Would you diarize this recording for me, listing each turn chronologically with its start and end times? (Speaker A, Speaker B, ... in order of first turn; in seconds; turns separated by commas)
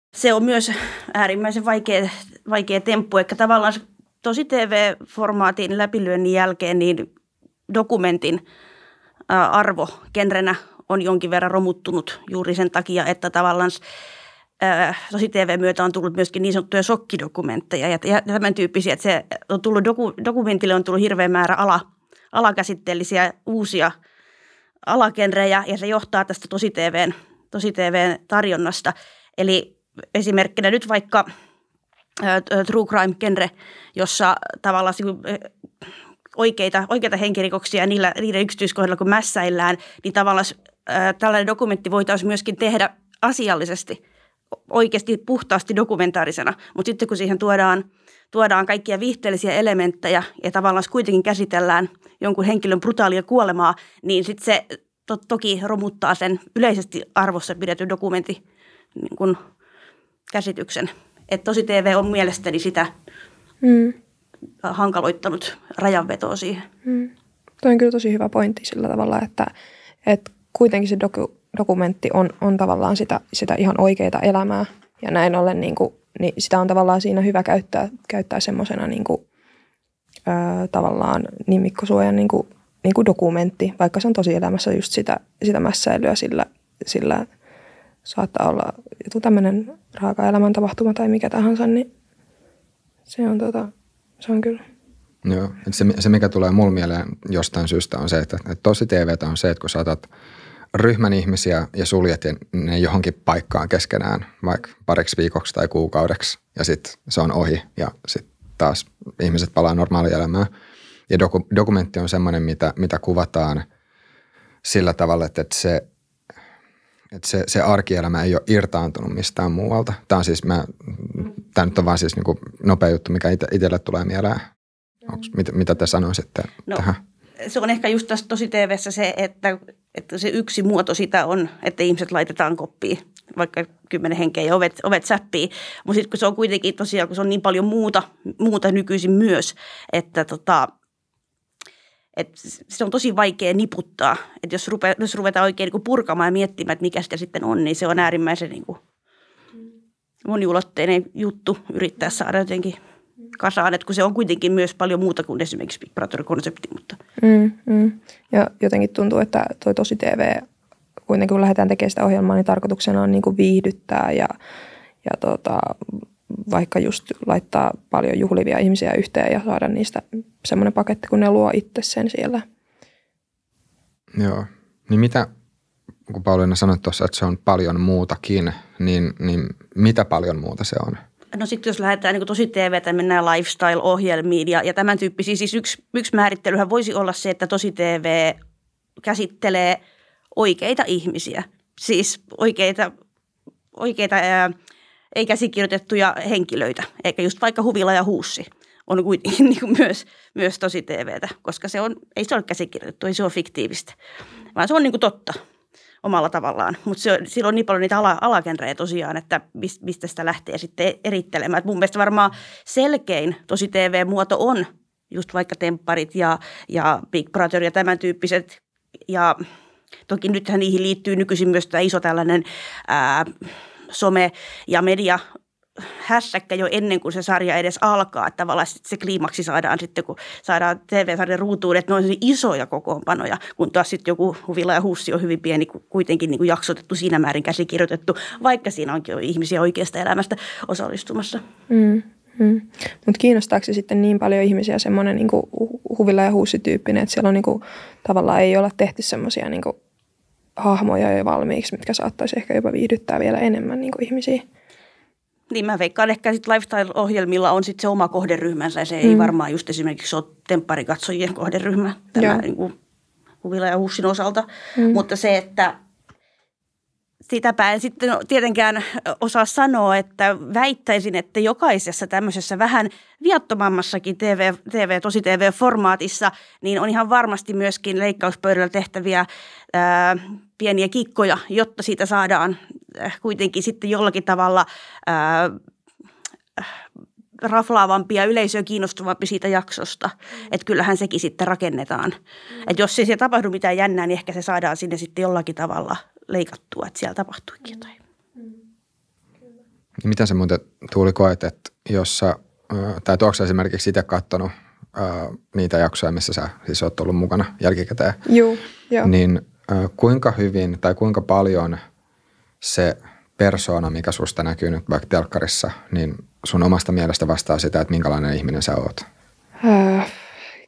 Speaker A: 0.1-7.1, Speaker A: 7.7-8.4, Speaker A: 9.3-13.8, Speaker A: 14.6-23.9, Speaker A: 24.9-31.3, Speaker A: 32.2-35.5, Speaker A: 36.4-44.0, Speaker A: 44.7-58.4, Speaker A: 59.0-59.4, Speaker A: 60.3-62.9, Speaker B: 63.6-64.0, Speaker A: 64.6-66.7, Speaker B: 66.9-67.1, Speaker B: 67.6-69.5, Speaker B: 70.1-79.2, Speaker B: 80.3-87.3, Speaker B: 88.0-91.9, Speaker B: 93.1-94.6, Speaker C: 95.2-100.1, Speaker C: 100.7-110.5, Speaker C: 111.1-113.7, Speaker C: 114.7-115.9, Speaker C: 117.1-124.4, Speaker C: 125.1-127.0, Speaker A: 127.4-140.7, Speaker A: 142.2-148.8, Speaker A: 150.2-152.8, Speaker A: 153.4-157.0, Speaker B: 157.2-160.4, Speaker B: 161.1-164.3, Speaker B: 165.0-172.4, Speaker C: 174.2-175.3, Speaker C: 176.1-181.0, Speaker A: 181.3-188.4, Speaker A: 189.0-189.8, Speaker A: 190.3-192.9, Speaker A: 193.8-194.6, Speaker A: 195.1-204.0, Speaker A: 204.6-205.4, Speaker A: 206.0-219.4, Speaker A: 220.1-223.3, Speaker A: 223.9-225.2, Speaker A: 226.0-241.4, Speaker B: 241.7-249.8, Speaker B: 250.6-254.4, Speaker A: 255.5-262.8, Speaker B: 259.0-259.3, Speaker B: 262.2-262.4, Speaker A: 263.4-265.8, Speaker A: 267.3-285.6, Speaker A: 287.4-297.9, Speaker C: 300.0-308.2, Speaker B: 308.3-309.1, Speaker C: 309.0-311.8, Speaker C: 312.6-319.1, Speaker B: 319.6-320.2